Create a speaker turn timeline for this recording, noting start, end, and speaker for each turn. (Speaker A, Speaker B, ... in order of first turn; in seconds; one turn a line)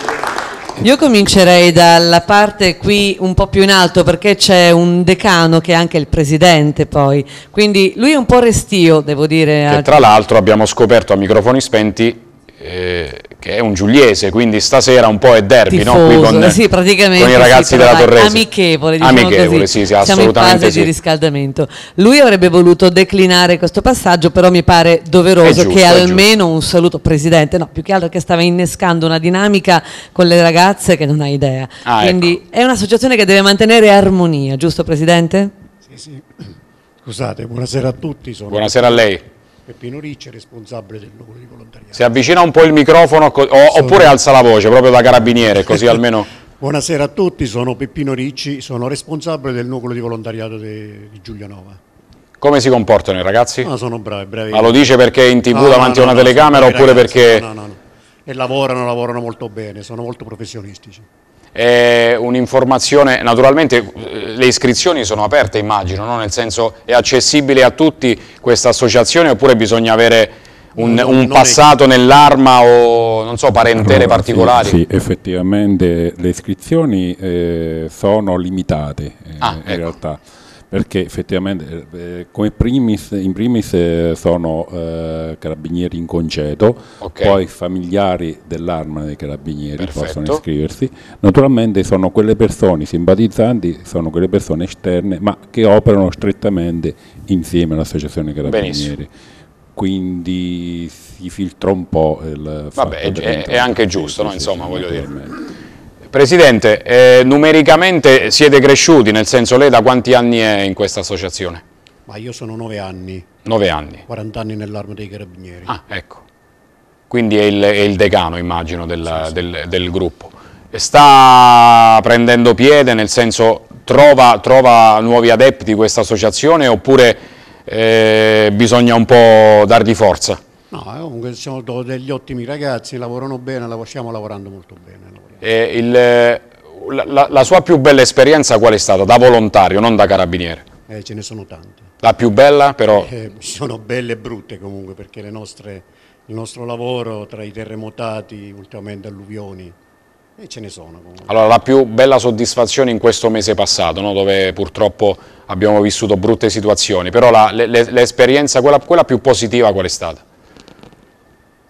Speaker A: 0.8-10.1
Speaker B: 9.7-16.6
Speaker A: 15.7-35.5
Speaker B: 17.1-18.4
Speaker B: 19.0-20.9
Speaker B: 25.4-26.2
Speaker B: 31.9-32.4
Speaker C: 35.9-36.5
Speaker C: 37.0-39.1
Speaker B: 38.5-39.2
Speaker C: 39.7-42.1
Speaker B: 42.0-46.3
Speaker C: 43.7-44.2
Speaker C: 45.2-46.0
Speaker C: 46.6-51.8
Speaker B: 52.4-53.7
Speaker C: 53.6-55.0
Speaker B: 54.5-57.5
Speaker C: 55.5-61.1
Speaker B: 61.5-74.8
Speaker C: 70.8-71.7
Speaker D: 73.8-99.1
Speaker B: 79.4-79.9
Speaker B: 87.0-87.4
Speaker B: 89.8-90.4
Speaker B: 98.4-98.9
Speaker D: 99.8-105.4
Speaker B: 102.8-105.1
Speaker B: 106.1-111.6
Speaker C: 112.1-113.3
Speaker B: 113.5-114.0
Speaker C: 114.1-115.8
Speaker B: 115.7-116.2
Speaker B: 117.1-130.4
Speaker C: 130.7-135.4
Speaker B: 135.4-140.7
Speaker C: 140.9-141.9
Speaker B: 142.0-143.1
Speaker C: 142.9-149.8
Speaker C: 150.4-151.3
Speaker B: 151.3-160.2